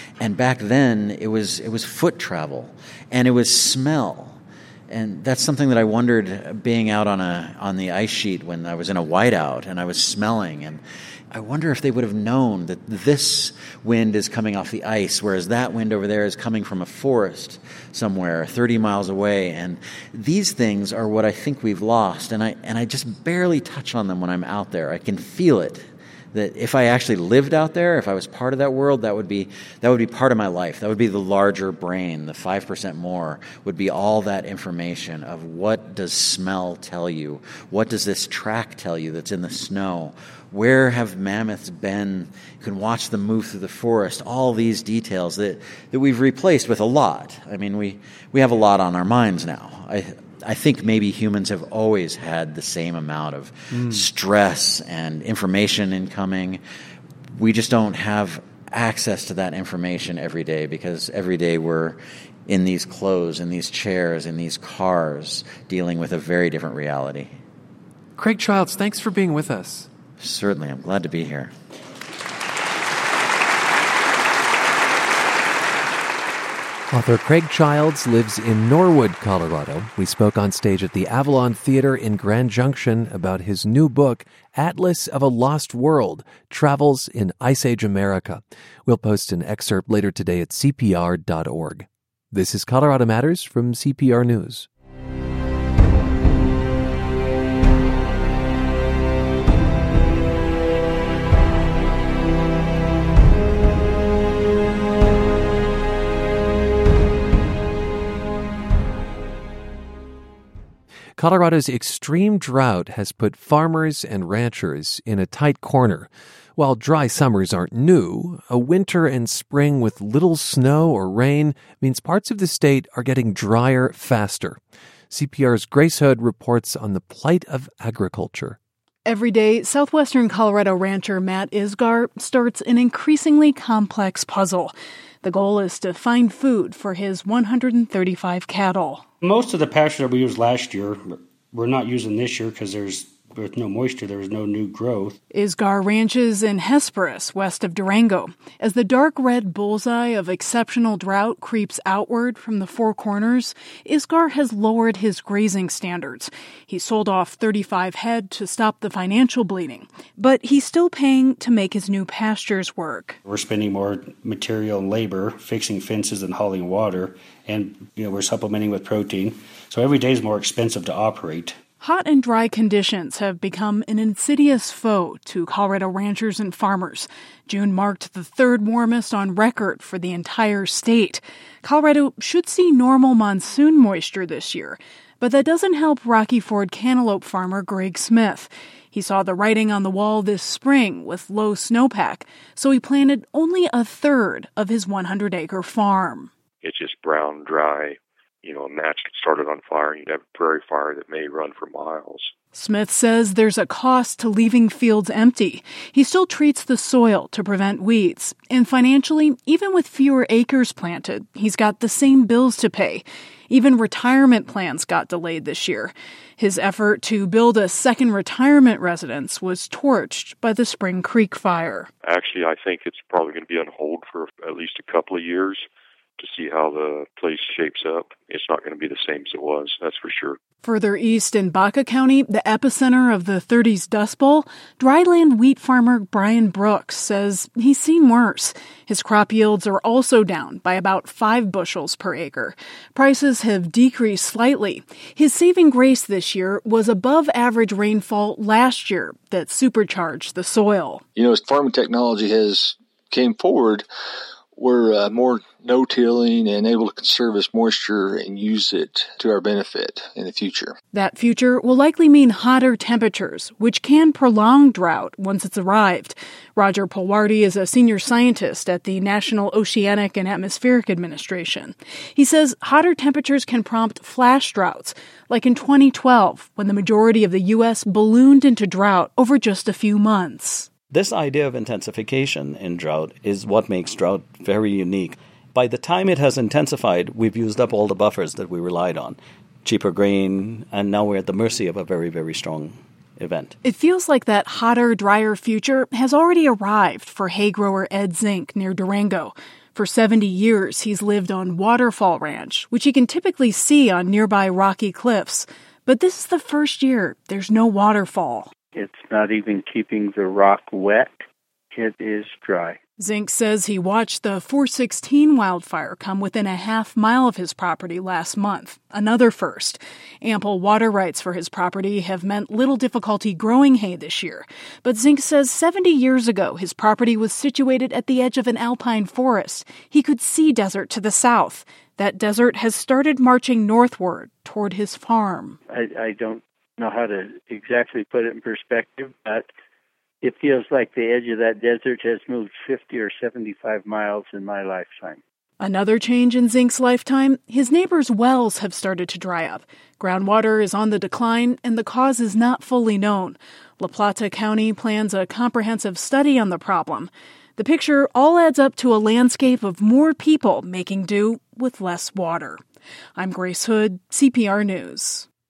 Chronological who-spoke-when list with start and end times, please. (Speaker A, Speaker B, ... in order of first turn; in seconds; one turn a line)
Speaker A: 0.2-56.6
Speaker B: 53.7-54.1
Speaker A: 57.4-67.3
Speaker B: 68.2-69.9
Speaker A: 70.2-71.5
Speaker B: 76.9-94.7
Speaker B: 111.2-124.6
Speaker B: 125.1-128.6
Speaker C: 129.1-139.0
Speaker D: 139.2-145.2
Speaker C: 145.3-163.2
Speaker D: 163.3-171.6
Speaker C: 171.8-196.3
Speaker E: 196.6-202.3
Speaker C: 202.5-221.9
Speaker E: 222.0-225.7
Speaker E: 226.2-230.4
Speaker C: 230.6-251.0
Speaker F: 251.2-253.9
Speaker F: 254.6-260.8
Speaker C: 260.9-280.7
Speaker G: 280.9-293.6
Speaker C: 293.6-308.5
Speaker H: 308.7-312.8
Speaker C: 313.0-335.6
Speaker H: 335.7-339.5
Speaker H: 340.2-345.2
Speaker C: 345.6-362.6
Speaker C: 363.2-365.3